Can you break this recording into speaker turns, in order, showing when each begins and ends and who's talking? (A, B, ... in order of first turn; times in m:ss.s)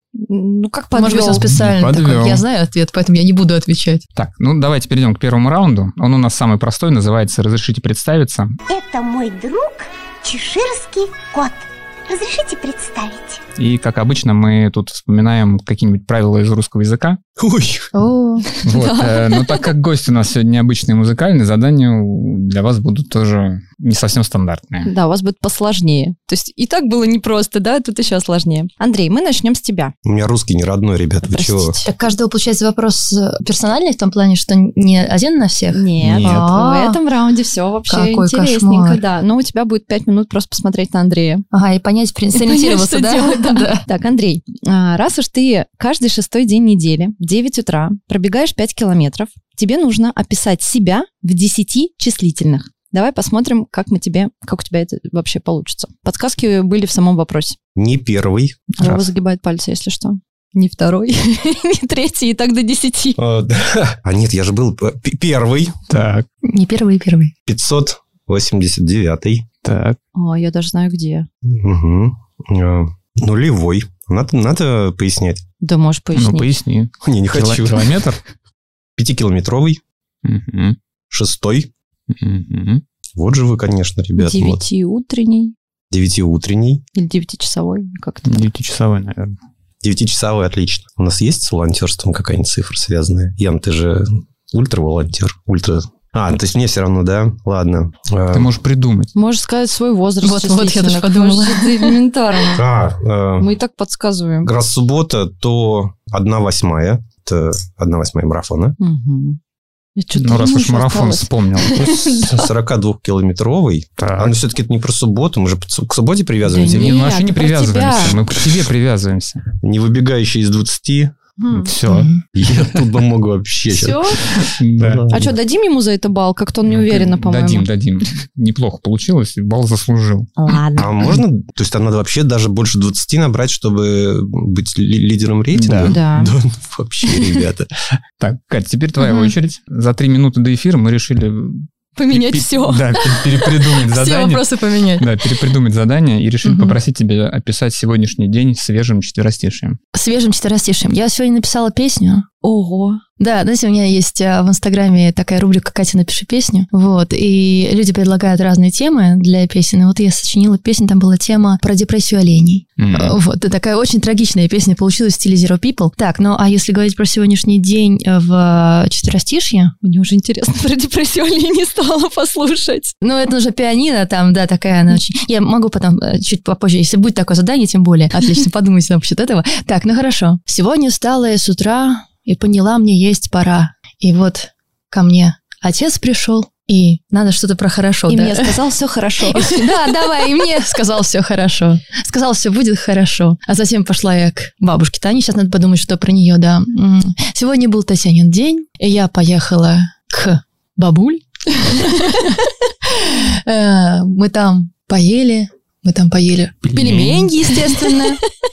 0:00.2-0:01.5 A
0:00.9-0:04.0 B
0:01.5-0:02.4 C
0:04.2-0:08.6 C
0:08.7-0:13.4 D
0:13.6-0:17.2 C
0:17.4-0:17.9 E
0:17.9-0:18.5 B
0:18.5-0:19.7 A
0:18.6-0:24.9 C
0:24.9-0:29.9 A
0:30.0-0:31.8 E
0:31.3-0:31.9 A
0:31.8-0:37.0 B
0:35.7-0:41.4 A
0:36.0-0:36.4 C
0:37.9-0:39.0 B
0:41.5-0:43.8 B
0:42.3-0:57.6 A
0:57.8-0:58.6 E
0:58.7-0:59.1 C
0:58.8-1:03.2 A
1:03.2-1:05.8 E
1:05.9-1:06.3 C
1:06.4-1:07.3 B
1:07.5-1:09.4 E
1:09.6-1:10.0 C
1:10.2-1:11.3 A
1:11.4-1:15.4 E
1:15.6-1:16.5 A
1:16.2-1:18.2 C
1:17.0-1:18.0 E
1:19.0-1:19.8 E
1:20.2-1:20.8 C
1:21.1-1:21.7 E
1:22.1-1:22.8 C
1:23.2-1:24.6 E
1:24.2-1:25.6 A
1:25.9-1:26.8 E
1:26.9-1:28.4 A
1:28.3-1:29.4 C
1:29.8-1:38.5 E
1:38.3-1:39.1 C
1:39.2-1:42.6 A
1:40.2-1:42.0 B
1:42.5-1:43.5 E
1:43.4-1:44.5 A
1:44.4-1:48.8 E
1:48.8-1:49.4 A
1:50.0-1:52.3 A
1:50.2-1:51.7 C
1:51.8-1:57.2 E
1:54.0-1:54.4 C
1:56.4-1:58.2 A
1:56.6-1:59.4 C
1:59.6-2:01.1 E
2:01.4-2:01.7 A
2:01.6-2:02.1 C
2:01.9-2:02.2 B
2:02.4-2:05.4 E
2:03.8-2:04.1 B
2:04.5-2:05.1 C
2:05.1-2:07.7 A
2:06.7-2:10.5 C
2:10.4-2:10.9 A
2:10.8-2:17.7 E
2:15.5-2:16.0 C
2:15.9-2:16.3 A
2:18.2-2:24.5 C
2:19.0-2:19.3 B
2:22.0-2:22.9 A
2:23.4-2:25.1 B
2:25.0-2:29.8 C
2:26.4-2:26.8 B
2:29.9-2:32.3 B
2:32.4-2:33.0 A
2:33.2-2:49.8 B
2:42.8-2:43.2 C
2:49.8-2:52.9 A
2:53.0-3:08.5 B
3:08.1-3:10.5 A
3:09.3-3:22.3 B
3:22.9-3:26.6 B
3:26.6-3:27.3 C
3:26.7-3:28.2 A